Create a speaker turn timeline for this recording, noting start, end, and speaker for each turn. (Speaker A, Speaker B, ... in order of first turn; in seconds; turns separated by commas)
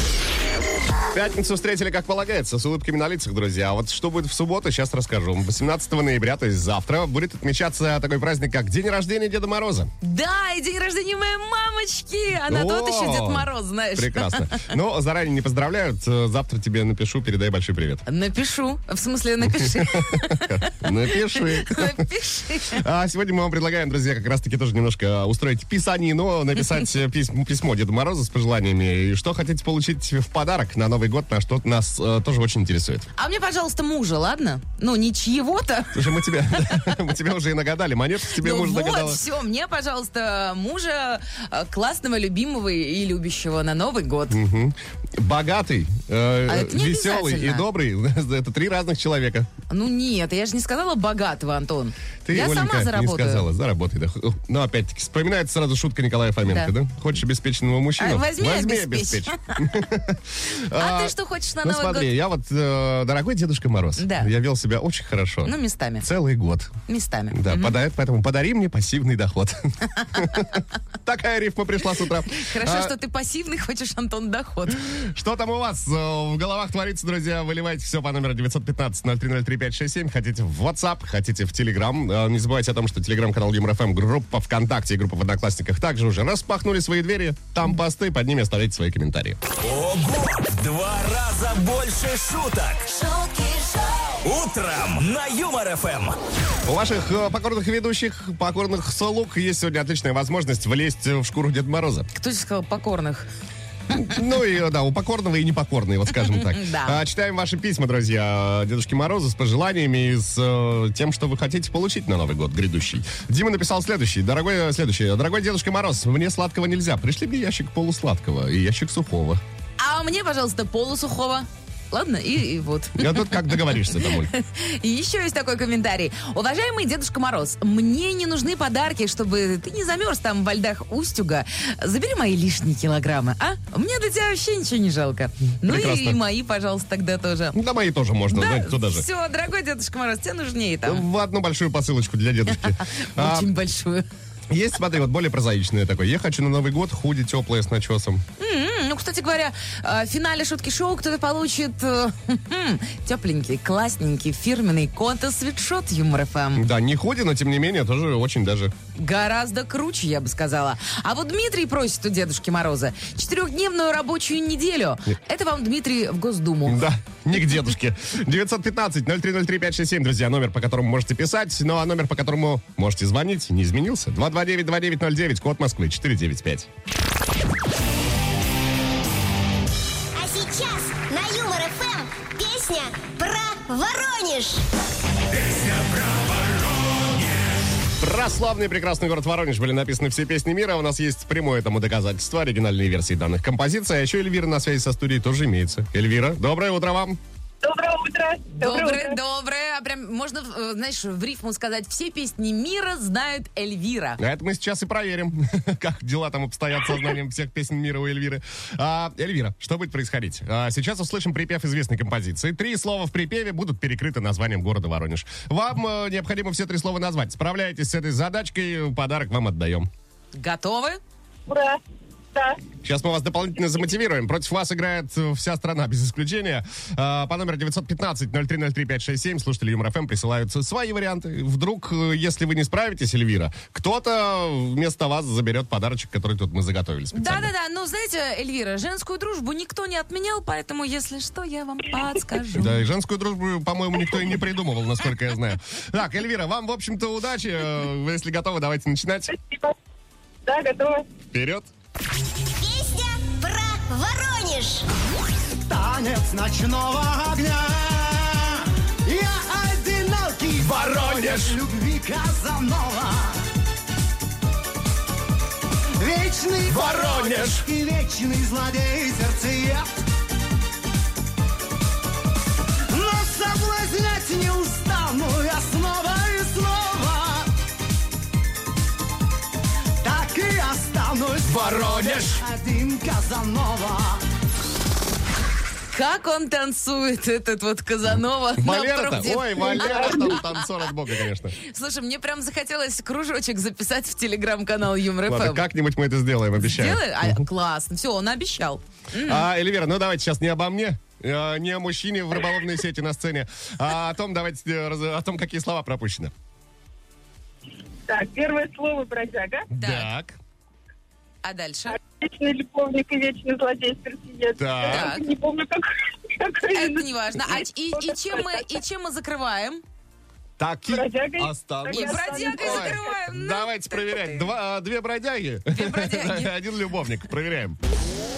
Speaker A: 1.1-9.9, Speaker B: 10.0-14.7, Speaker A: 12.5-18.0, Speaker B: 18.1-22.8, Speaker A: 19.4-22.1, Speaker A: 22.6-33.1, Speaker B: 33.1-37.0, Speaker A: 35.9-39.2, Speaker B: 38.4-44.4, Speaker A: 44.3-49.5, Speaker B: 46.5-47.6, Speaker B: 49.7-53.5, Speaker A: 52.2-66.7, Speaker B: 56.4-56.7, Speaker B: 58.0-59.8, Speaker B: 60.7-62.1, Speaker B: 64.0-64.3, Speaker B: 65.4-66.0, Speaker B: 66.9-67.8, Speaker A: 67.3-72.9, Speaker B: 72.3-74.8, Speaker A: 74.8-89.4, Speaker C: 89.6-93.1, Speaker C: 94.2-96.2, Speaker A: 96.7-102.1, Speaker B: 102.1-103.3, Speaker A: 103.9-119.4, Speaker B: 106.2-107.0, Speaker B: 119.8-137.6, Speaker A: 123.0-124.3, Speaker A: 135.6-136.2, Speaker A: 137.5-139.0, Speaker B: 138.3-141.0, Speaker A: 140.8-143.5, Speaker B: 142.6-144.1, Speaker A: 144.5-148.2, Speaker B: 148.4-156.6, Speaker A: 156.5-158.7, Speaker B: 158.9-166.8, Speaker A: 166.7-176.7, Speaker D: 180.1-184.6, Speaker C: 185.3-187.5, Speaker A: 188.0-197.2, Speaker E: 197.6-199.2, Speaker B: 198.6-204.2, Speaker A: 204.2-219.9, Speaker B: 220.3-221.0, Speaker E: 221.5-221.8, Speaker E: 222.3-222.6, Speaker A: 222.8-237.5, Speaker B: 237.1-242.7, Speaker A: 242.5-249.3, Speaker E: 249.3-249.7, Speaker E: 250.4-251.1, Speaker A: 251.3-251.7, Speaker D: 252.6-254.8, Speaker F: 255.6-263.4, Speaker C: 260.6-261.6, Speaker F: 266.0-269.9, Speaker C: 266.7-267.6, Speaker F: 272.9-277.5, Speaker F: 280.0-284.2, Speaker C: 281.4-282.4, Speaker B: 285.9-290.6, Speaker A: 288.6-291.6, Speaker B: 291.6-295.6, Speaker A: 295.3-297.4, Speaker B: 296.6-299.4, Speaker A: 299.2-306.3, Speaker E: 308.1-309.7, Speaker A: 309.7-310.4, Speaker B: 309.8-310.1, Speaker B: 311.4-312.0, Speaker E: 311.9-318.6, Speaker A: 314.6-315.1, Speaker B: 314.9-315.2, Speaker B: 316.7-319.8, Speaker A: 320.6-327.8, Speaker E: 320.9-323.1, Speaker B: 321.9-324.5, Speaker B: 325.7-326.5